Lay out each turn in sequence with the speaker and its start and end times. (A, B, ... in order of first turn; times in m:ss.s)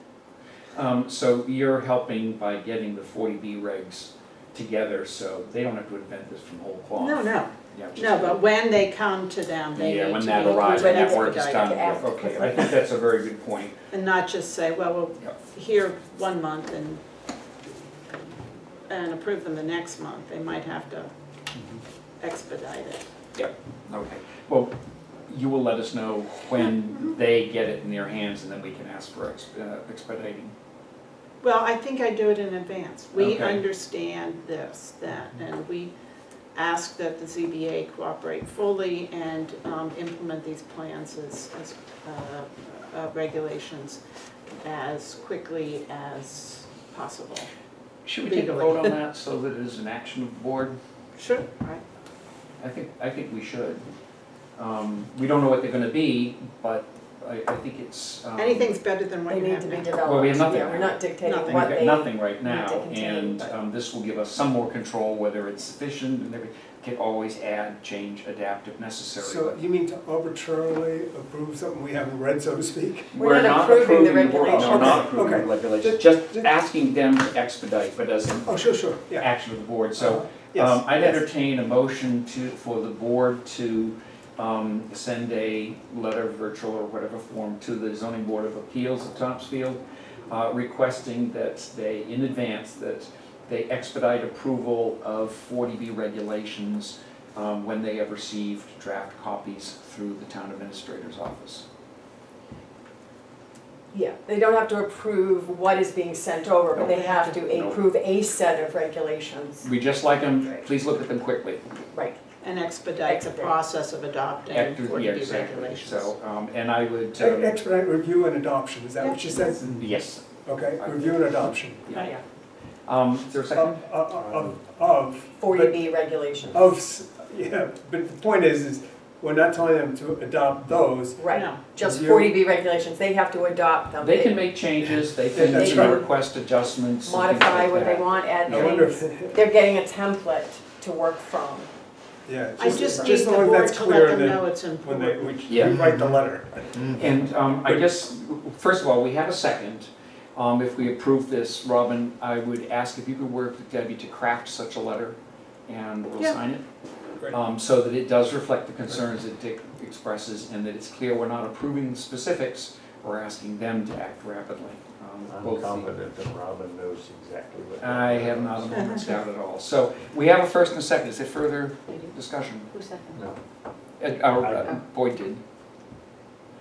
0:00.8-0:08.4 A
0:07.0-0:12.3 B
0:09.8-0:13.8 A
0:10.3-0:12.8 C
0:13.9-0:17.0 B
0:18.9-0:21.1 B
0:22.2-0:23.1 B
0:23.4-0:24.8 A
0:25.3-0:30.5 A
0:31.4-0:35.9 B
0:33.2-0:33.6 A
0:36.6-0:44.0 B
0:44.6-0:47.5 B
0:48.0-0:50.8 A
0:48.3-0:49.0 B
0:51.2-0:51.8 B
0:52.6-0:53.8 A
0:54.6-0:58.8 A
0:58.4-1:00.0 B
0:59.3-1:03.5 C
1:00.0-1:09.6 A
1:01.2-1:01.9 B
1:09.2-1:13.8 D
1:13.1-1:18.5 A
1:13.2-1:15.4 C
1:14.4-1:16.5 D
1:18.4-1:19.3 D
1:19.1-1:41.7 A
1:20.0-1:21.2 D
1:43.9-1:49.7 C
1:46.7-1:47.8 A
1:46.8-1:47.4 B
1:49.6-1:51.6 A
1:51.9-1:52.2 C
1:52.4-1:56.1 B
1:53.0-1:53.6 C
1:54.5-1:57.6 A
1:57.2-1:59.9 D
1:59.0-1:59.6 B
1:59.6-2:02.2 A
2:00.4-2:01.8 D
2:02.0-2:02.2 C
2:02.8-2:03.8 A
2:03.5-2:05.8 D
2:04.2-2:04.5 E
2:05.4-2:06.7 C
2:06.5-2:11.3 D
2:11.2-2:14.4 C
2:11.3-2:11.6 B
2:11.8-2:12.4 D
2:14.0-2:18.8 A
2:15.3-2:16.1 D
2:15.4-2:16.1 C
2:17.0-2:21.7 C
2:18.5-2:19.4 D
2:22.3-2:27.1 D
2:22.6-2:25.4 B
2:22.7-2:23.2 C
2:25.5-2:25.8 A
2:26.9-2:36.6 A
2:37.3-2:45.9 A
2:45.2-2:48.8 E
2:47.8-2:52.8 A
2:48.7-2:49.1 B
2:53.2-2:53.4 E
2:54.0-2:55.4 A
2:54.4-2:54.7 E